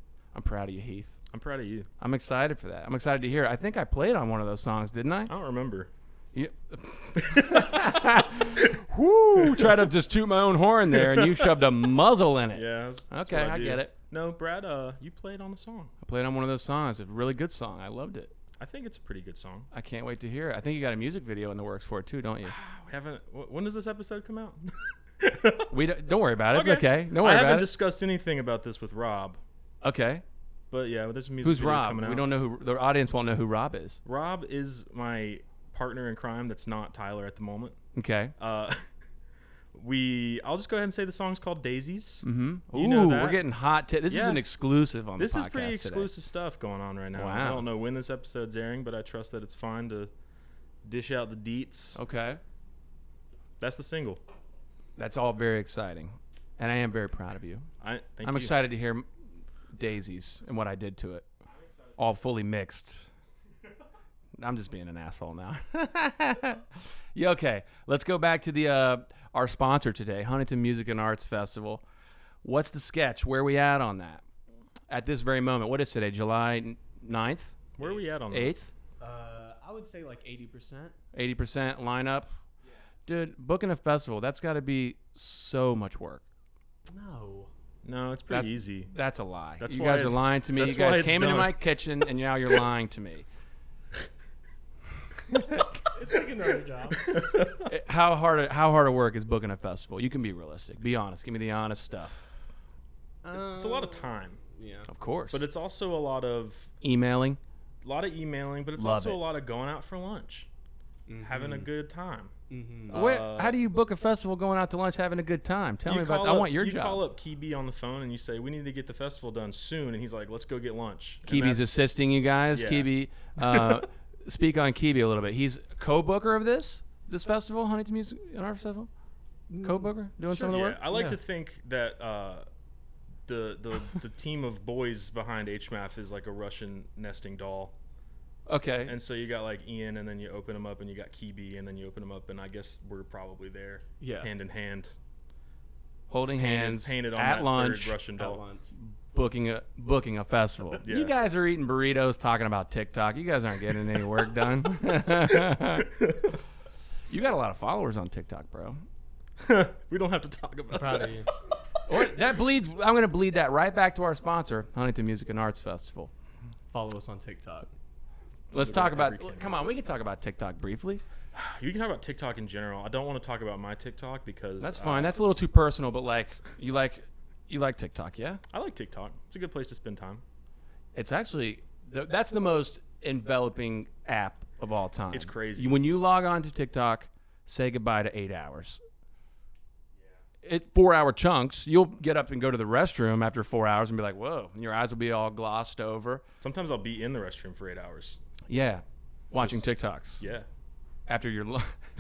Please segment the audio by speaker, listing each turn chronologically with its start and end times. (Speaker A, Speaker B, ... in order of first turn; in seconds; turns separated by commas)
Speaker A: 0.3-1.1, Speaker B: 1.3-1.9, Speaker A: 2.0-5.3, Speaker B: 5.3-5.9, Speaker A: 6.3-13.9, Speaker B: 7.2-8.2, Speaker B: 9.4-9.9, Speaker B: 10.9-11.6, Speaker B: 12.5-15.9, Speaker A: 16.0-18.3, Speaker B: 18.6-19.7, Speaker A: 19.7-22.5, Speaker B: 22.4-25.7, Speaker A: 25.7-27.7, Speaker B: 26.5-29.4, Speaker A: 29.8-30.2, Speaker B: 30.7-32.3, Speaker A: 31.4-34.0, Speaker B: 34.0-37.8, Speaker A: 38.0-38.3, Speaker B: 38.4-38.9, Speaker B: 39.7-43.4, Speaker A: 42.2-46.1, Speaker B: 44.1-44.4, Speaker B: 45.2-50.1, Speaker A: 47.1-47.7, Speaker B: 50.8-52.0, Speaker A: 52.0-52.4, Speaker B: 53.6-54.2, Speaker A: 55.0-57.7, Speaker B: 57.8-58.5, Speaker A: 58.2-59.1, Speaker A: 59.7-61.3, Speaker A: 62.0-63.1, Speaker A: 64.4-71.8, Speaker A: 72.4-74.2, Speaker A: 74.9-77.6, Speaker B: 77.8-78.5, Speaker A: 78.3-78.7, Speaker C: 79.0-81.0, Speaker A: 81.1-82.3, Speaker A: 83.1-86.2, Speaker C: 86.9-87.5, Speaker B: 87.8-88.9, Speaker A: 88.3-93.3, Speaker B: 89.6-91.6, Speaker A: 95.3-95.7, Speaker C: 95.9-97.1, Speaker B: 97.0-97.7, Speaker A: 97.6-102.3, Speaker C: 103.2-104.9, Speaker B: 103.3-104.4, Speaker A: 104.9-105.4, Speaker B: 105.3-106.7, Speaker A: 106.8-107.4, Speaker B: 107.8-110.5, Speaker A: 108.8-109.2, Speaker C: 111.1-111.7, Speaker B: 111.2-112.3, Speaker C: 112.5-113.0, Speaker B: 112.9-113.6, Speaker A: 112.9-117.0, Speaker B: 115.9-121.8, Speaker A: 121.3-128.9, Speaker B: 122.5-122.9, Speaker B: 123.4-123.8, Speaker C: 129.5-129.9, Speaker A: 129.6-130.8, Speaker B: 130.3-132.5, Speaker C: 130.9-131.2, Speaker B: 133.3-137.8, Speaker A: 138.5-138.9, Speaker B: 138.9-145.0, Speaker C: 144.0-144.3, Speaker A: 146.1-148.0, Speaker B: 146.4-148.4, Speaker C: 148.2-148.7, Speaker A: 149.1-155.9, Speaker B: 150.8-151.2, Speaker A: 157.1-158.8, Speaker B: 159.4-161.2, Speaker C: 160.7-161.3, Speaker A: 161.9-166.1, Speaker C: 166.7-167.7, Speaker A: 168.5-171.0, Speaker B: 168.6-169.6, Speaker B: 171.3-175.2, Speaker A: 174.6-178.4, Speaker B: 178.5-180.2, Speaker A: 180.9-188.8, Speaker B: 185.1-185.8, Speaker A: 190.4-196.2, Speaker B: 196.4-198.2, Speaker A: 198.5-200.2, Speaker B: 199.4-199.6, Speaker B: 200.2-200.5, Speaker A: 201.1-201.8